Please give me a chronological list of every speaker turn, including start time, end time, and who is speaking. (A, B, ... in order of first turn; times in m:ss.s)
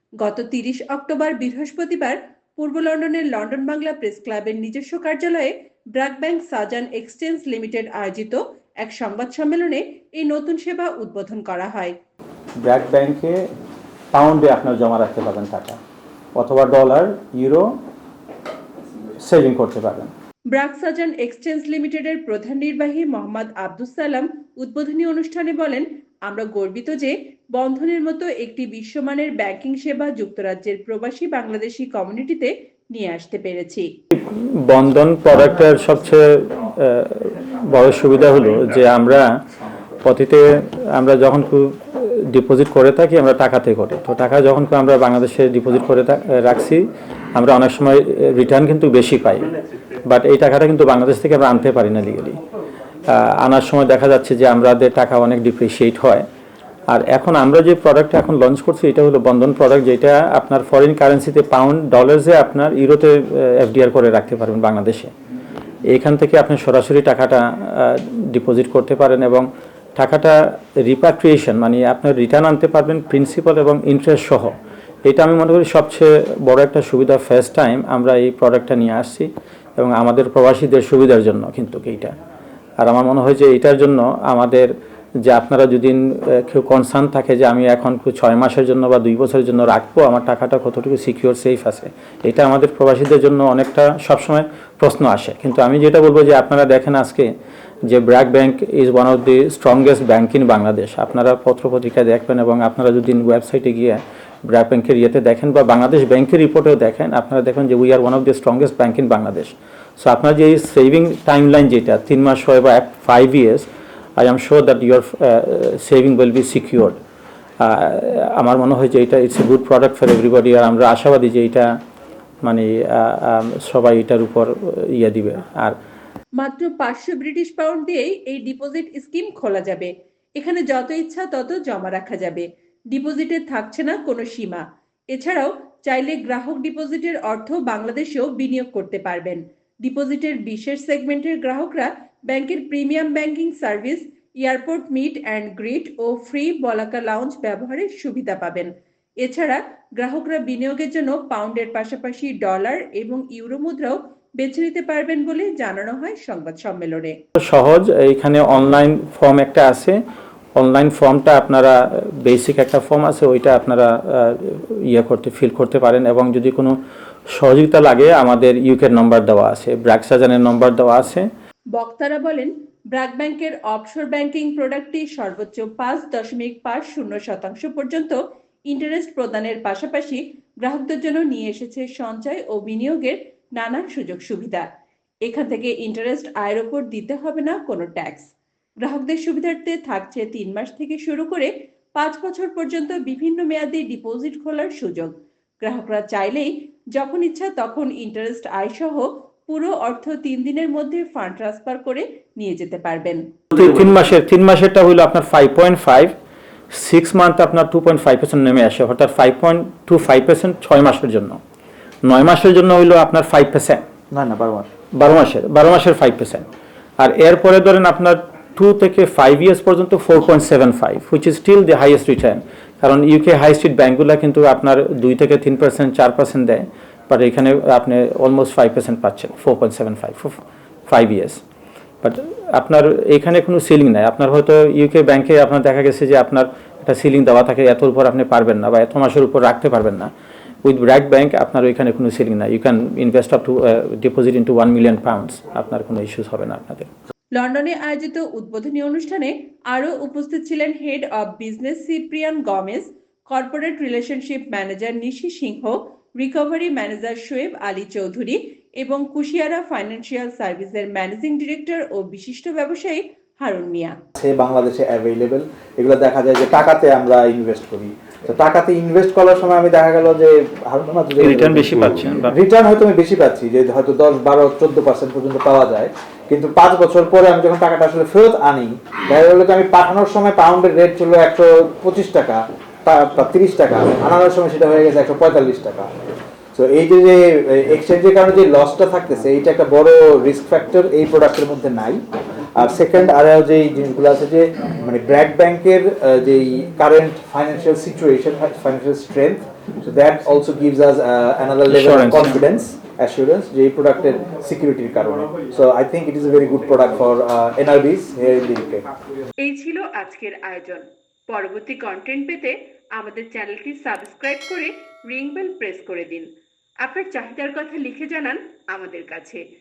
0:00.2-0:11.9 A
0:12.6-0:13.5 B
0:14.1-0:15.8 B
0:16.3-0:17.7 B
0:19.2-0:20.1 B
0:20.5-0:33.9 A
0:34.2-0:39.4 B
0:40.0-0:49.5 B
0:50.0-0:52.4 B
0:53.1-0:56.2 B
0:56.9-1:05.1 B
1:05.9-1:14.5 B
1:15.0-1:22.1 B
1:22.8-1:24.7 B
1:25.2-1:37.3 B
1:37.8-1:57.0 B
1:57.6-2:01.8 B
2:02.4-2:05.8 B
2:06.4-2:28.7 A
2:29.2-2:37.2 A
2:37.4-2:40.0 B
2:40.6-2:46.8 B
2:47.3-2:51.3 B
2:51.7-3:04.7 A
3:05.2-3:08.3 A
3:08.8-3:23.3 A
3:23.5-3:26.1 B
3:26.7-3:31.4 B
3:32.0-3:33.8 B
3:34.1-3:34.7 C
3:34.9-3:36.4 B
3:37.0-3:51.4 B
3:52.0-4:00.1 B
4:00.6-4:06.9 B
4:07.3-4:24.0 A
4:24.2-4:45.9 C
4:31.2-4:32.3 B
4:46.5-4:52.0 C
4:52.6-5:08.8 C
5:01.7-5:02.4 B
5:09.4-5:16.3 A
5:16.8-5:19.4 A